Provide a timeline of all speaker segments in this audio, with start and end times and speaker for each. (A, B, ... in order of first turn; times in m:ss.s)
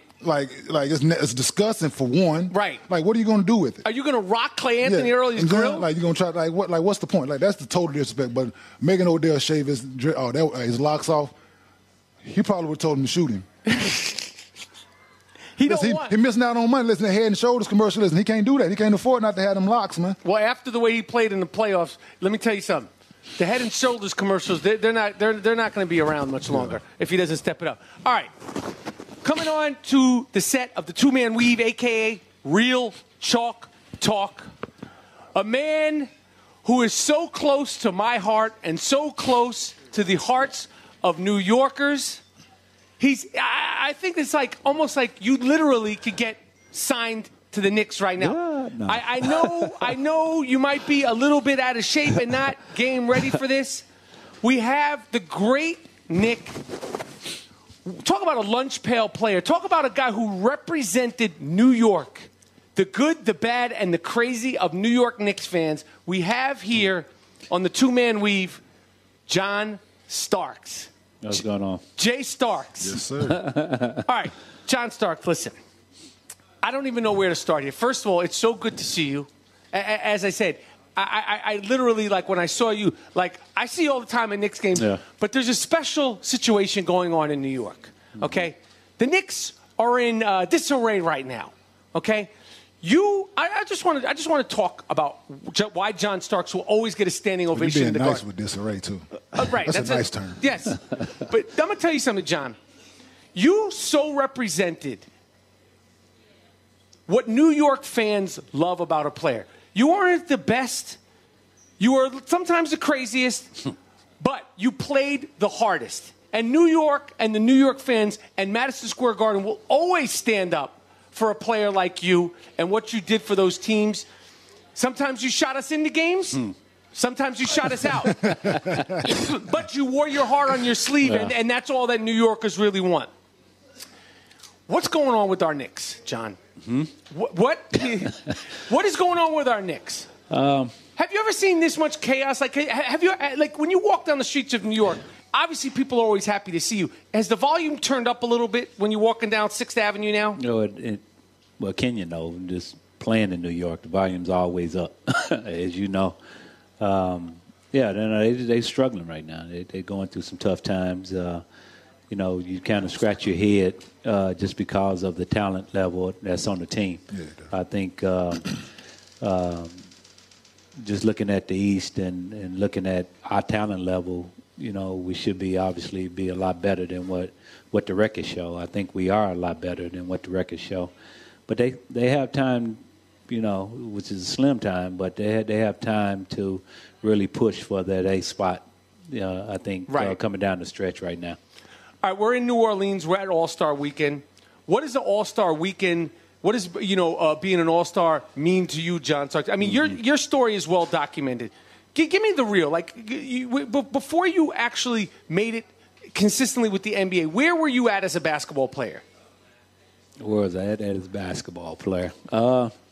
0:00.2-0:03.8 A
0:02.5-0:02.8 B
0:03.8-0:05.9 B
0:04.8-0:11.4 A
0:12.2-0:13.5 A
0:13.7-0:14.3 B
0:15.6-0:16.2 B
0:15.6-0:20.2 A
0:20.2-0:28.6 B
0:26.5-0:26.8 A
0:29.2-0:34.5 B
0:35.4-0:36.1 B
0:36.6-0:42.2 B
0:43.0-0:53.8 B
0:48.2-0:50.0 C
0:54.4-0:56.6 B
0:57.9-1:08.6 B
1:09.3-1:11.4 B
1:11.2-1:11.8 C
1:12.0-1:13.0 B
1:12.8-1:13.5 A
1:13.3-1:14.0 C
1:14.0-1:15.6 B
1:16.6-1:32.3 B
1:24.8-1:25.0 C
1:28.2-1:28.4 C
1:32.8-1:38.2 B
1:37.5-1:40.5 A
1:39.3-1:42.6 B
1:43.4-1:45.1 B
1:47.1-1:51.0 B
1:51.8-1:53.7 B
1:54.2-2:04.1 B
2:04.8-2:13.1 B
2:08.2-2:09.0 C
2:08.3-2:09.0 A
2:11.0-2:11.4 C
2:14.7-2:16.4 B
2:17.1-2:20.1 B
2:20.3-2:20.8 C
2:21.0-2:30.4 B
2:30.4-2:31.0 C
2:31.6-2:36.2 C
2:36.8-2:41.4 C
2:42.1-2:48.6 C
2:47.1-2:47.5 A
2:49.2-2:49.8 C
2:50.8-3:00.9 C
3:01.5-3:11.4 C
3:09.9-3:10.2 B
3:12.0-3:29.0 B
3:30.2-3:32.7 C